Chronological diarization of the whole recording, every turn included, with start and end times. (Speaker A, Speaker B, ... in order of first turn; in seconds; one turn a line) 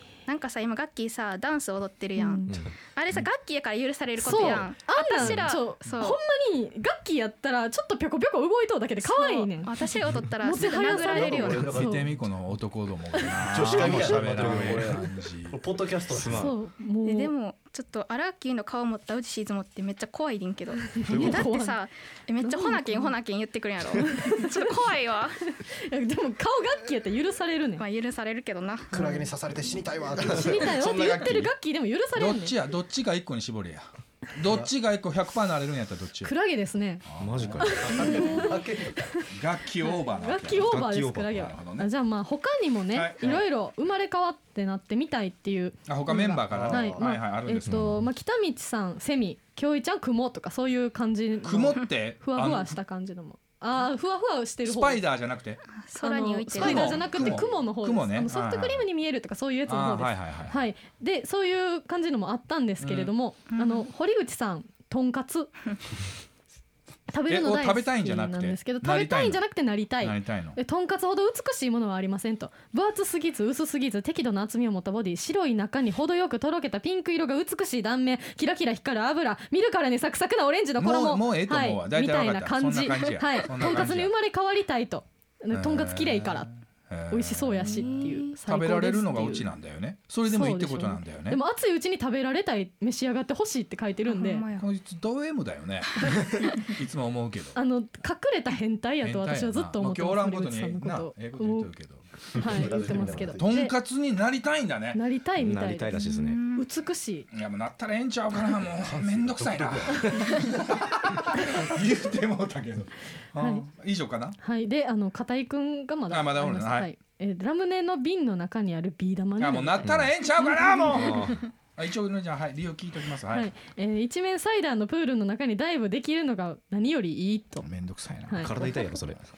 Speaker A: 0.3-6.2
Speaker B: 2.2-2.7
Speaker B: 4.2-9.8
Speaker A: 9.0-11.7
Speaker B: 10.4-12.1
Speaker C: 10.9-12.0
Speaker D: 11.5-15.6
Speaker B: 13.1-13.4
Speaker C: 13.5-16.5
Speaker E: 13.5-15.0
Speaker E: 16.1-16.6
Speaker B: 16.3-17.3
Speaker A: 17.0-25.4
Speaker B: 20.9-21.8
Speaker C: 21.1-21.4
Speaker B: 22.4-23.1
Speaker B: 23.9-24.8
Speaker B: 25.6-27.9
Speaker A: 27.8-29.1
Speaker B: 28.9-29.3
Speaker C: 28.9-30.7
Speaker E: 30.2-31.5
Speaker B: 30.2-32.5
Speaker D: 30.8-31.5
Speaker D: 32.1-36.3
Speaker B: 36.2-37.0
Speaker D: 37.0-38.3
Speaker E: 37.2-38.1
Speaker B: 37.6-39.3
Speaker C: 37.7-39.1
Speaker D: 39.3-41.9
Speaker B: 39.8-55.0
Speaker E: 40.6-41.4
Speaker D: 42.9-43.4
Speaker D: 45.9-48.0
Speaker C: 46.4-47.1
Speaker E: 47.6-48.1
Speaker D: 51.4-52.8
Speaker D: 54.6-55.7
Speaker A: 55.8-57.4
Speaker B: 56.0-65.5
Speaker D: 56.6-58.9
Speaker D: 59.7-60.6
Speaker D: 62.8-63.1
Speaker A: 63.5-63.9
Speaker B: 67.1-86.5
Speaker D: 67.3-69.4
Speaker D: 70.0-70.6
Speaker D: 80.8-84.1
Speaker D: 85.5-91.4
Speaker B: 87.1-89.5
Speaker A: 87.6-88.4
Speaker B: 90.3-94.5
Speaker A: 94.1-94.7
Speaker D: 94.6-97.6
Speaker A: 96.1-96.7
Speaker B: 97.5-101.7
Speaker D: 99.0-105.0
Speaker C: 102.3-103.6
Speaker B: 102.3-103.7
Speaker B: 104.9-107.3
Speaker E: 105.4-106.4
Speaker A: 105.9-106.7
Speaker D: 107.3-114.4
Speaker C: 108.9-110.1
Speaker B: 113.4-113.7
Speaker B: 114.4-121.3
Speaker D: 116.1-116.9
Speaker D: 119.4-123.5
Speaker E: 119.8-120.1
Speaker E: 120.9-121.4
Speaker B: 123.3-127.7
Speaker D: 127.6-129.1
Speaker B: 128.3-128.5
Speaker E: 128.4-129.2